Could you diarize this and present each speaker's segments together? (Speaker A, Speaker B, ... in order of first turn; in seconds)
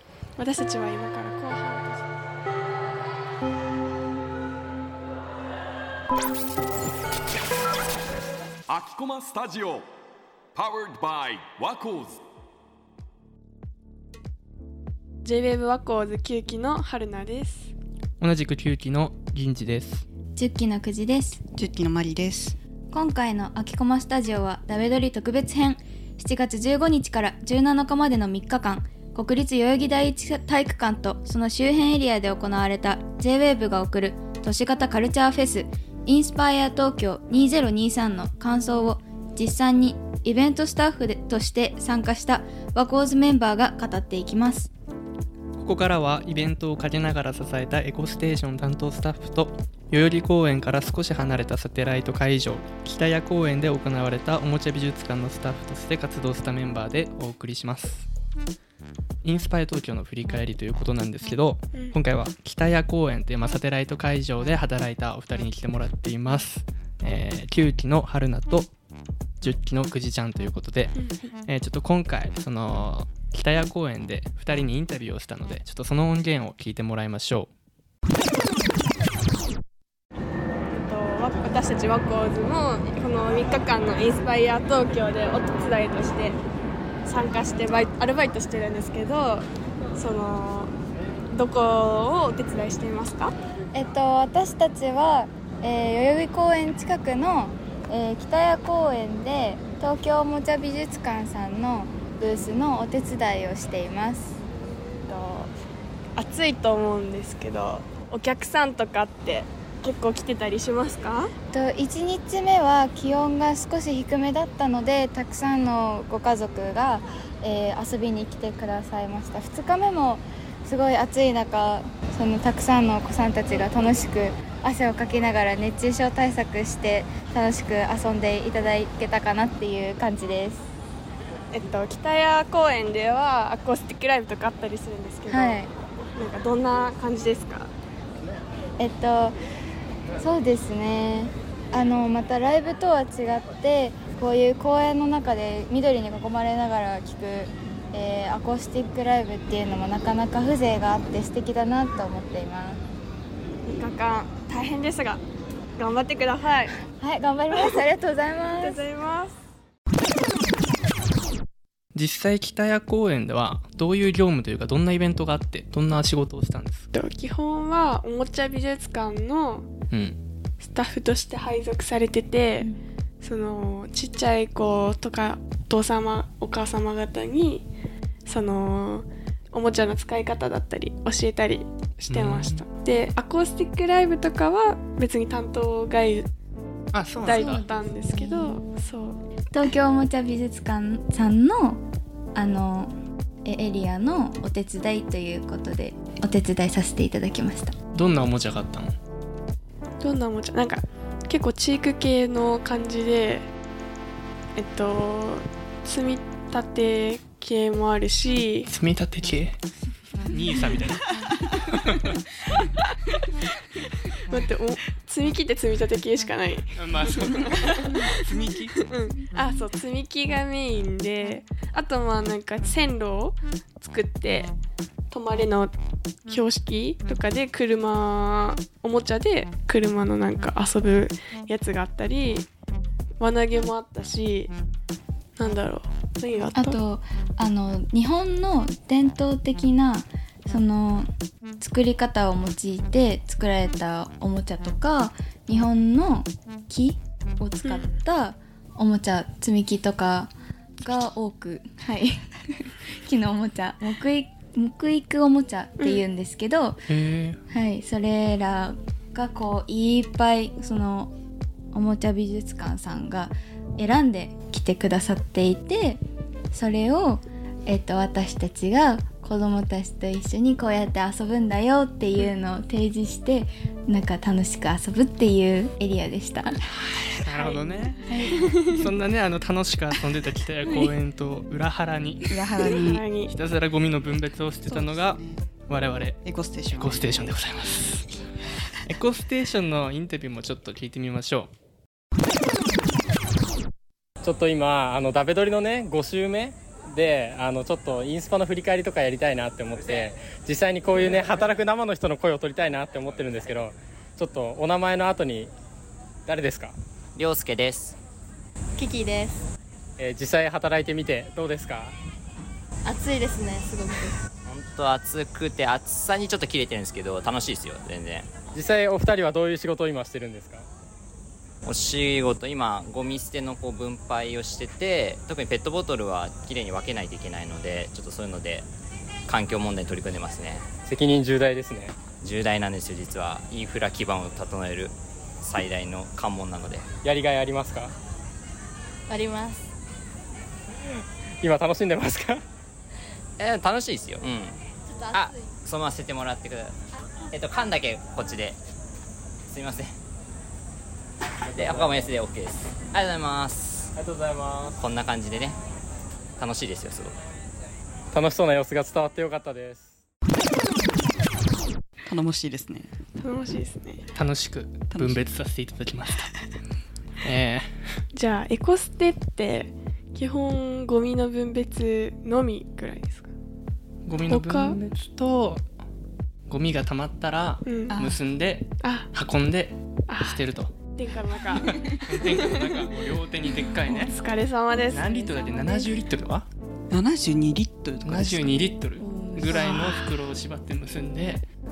Speaker A: 0.4-2.1, 15.2-17.7, 80.7-86.4, 87.1-90.7, 91.3-93.3, 105.1-105.5, 106.2-111.3, 131.5-135.6, 136.2-137.7, 153.6-155.2, 155.8-156.8, 158.6-159.3, 166.9-169.7, 170.6-177.7, 178.2-186.3, 187.2-189.2, 200.0-203.5, 204.6-208.7, 214.1-218.1, 218.8-224.5, 225.1-225.8, 226.3-232.5, 233.2-234.5, 235.4-236.8, 247.6-247.9, 277.3-278.6, 282.6-283.3, 363.2-364.1, 368.1-373.3, 374.3-374.8, 377.6-378.0, 378.8-379.1, 380.1-382.9, 383.7-385.9
Speaker B: 8.7-9.9, 10.5-12.2
Speaker C: 18.2-20.1, 45.6-58.1, 59.2-68.7, 69.4-77.5, 161.9-166.9, 169.9-170.2, 182.1-182.6, 186.9-187.6, 197.9-198.9, 208.7-209.6, 210.2-212.2, 216.8-218.8, 256.9-257.4, 276.8-282.5, 283.3-288.2, 288.8-291.5, 364.1-366.3, 367.2-367.9, 374.1-375.6, 376.5-380.7, 381.5-384.2, 384.9-386.5, 388.0-391.4
Speaker D: 20.4-21.4, 22.9-44.7, 93.7-104.4, 111.5-130.7, 135.3-135.7, 138.8-139.3, 140.2-152.8, 156.9-158.8, 187.3-188.6, 189.5-191.8, 192.3-192.9, 193.4-197.8, 236.5-241.1, 241.6-256.9, 257.5-261.1, 261.7-266.0, 266.5-276.6, 278.1-278.6, 389.0-389.6
Speaker E: 21.6-22.6, 282.3-283.1, 284.6-285.5, 286.2-287.3, 362.1-362.9, 364.9-365.3, 377.9-378.2, 386.9-388.8, 389.6-389.9
Speaker F: 294.2-305.5, 306.3-306.7, 310.0-311.9, 318.5-320.6, 330.8-331.9, 337.0-337.9, 341.4-342.4, 351.6-352.2, 353.9-354.9, 358.1-359.9
Speaker G: 307.1-307.9, 314.4-318.3, 321.6-328.6, 329.3-330.7, 332.1-336.9, 343.4-344.6, 345.1-346.8, 347.3-348.6, 349.5-349.9, 351.5-353.9, 354.8-355.6, 356.4-357.2
Speaker H: 308.8-309.4, 312.8-314.1, 339.1-339.6, 344.9-345.3